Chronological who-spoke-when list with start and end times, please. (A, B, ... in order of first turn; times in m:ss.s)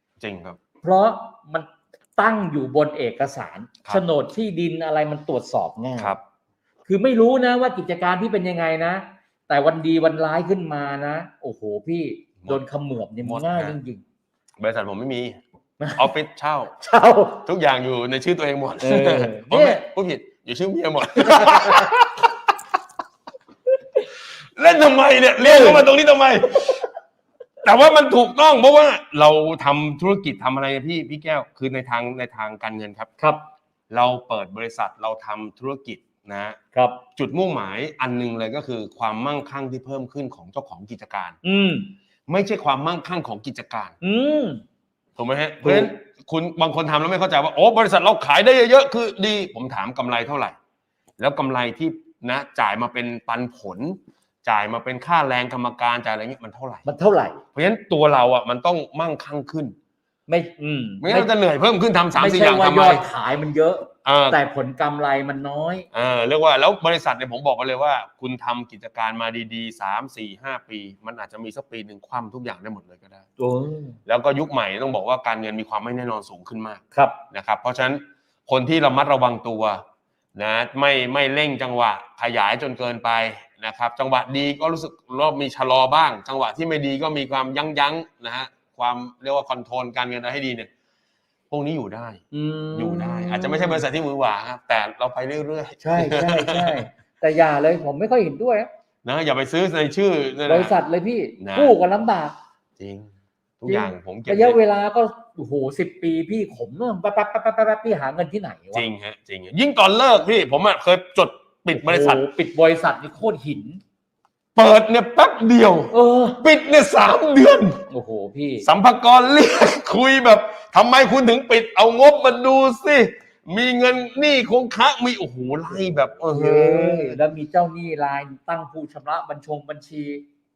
0:00.2-0:00.6 A
0:00.8-0:06.2 B
0:06.8-0:14.0 B
0:13.2-0:13.8 A
0:14.6-0:15.4 A
0:15.8-0:16.1 B
0:15.9-0:16.8 A
0:16.8-0:17.4 B
0:17.4-0:22.3 A
0:18.8-0:19.8 B
0:21.2-0:22.0 B
0:24.4-0:26.8 A
0:25.4-0:25.9 B
0:27.6-0:33.1 A
0:33.9-0:36.6 A
0:36.7-0:37.0 B
0:37.2-0:41.4 A
0:41.4-0:41.9 B
0:42.3-0:43.9 A
0:44.0-0:44.6 B
0:45.2-0:50.6 A
0:45.6-0:45.9 B
0:51.2-0:56.8 A
0:56.8-0:57.4 B
0:57.5-0:59.7 A
1:00.3-1:01.3 B
1:01.0-1:03.1 A
1:02.2-1:05.9 B
1:04.0-1:04.4 A
1:05.9-1:13.2 A
1:13.4-1:14.0 B
1:14.0-1:19.8 A
1:20.3-1:30.7 A
1:31.5-1:32.2 A
1:32.3-1:33.8 B
1:32.7-1:36.8 A
1:35.8-1:38.7 B
1:39.0-1:40.8 A
1:40.4-1:42.4 B
1:41.4-1:41.7 A
1:42.8-1:44.6 A
1:43.7-1:48.8 B
1:48.7-1:52.2 A
1:51.7-1:53.8 B
1:54.5-1:57.8 A
1:55.9-1:56.4 B
1:57.9-1:58.6 B
1:58.6-2:07.2 A
2:06.3-2:10.2 B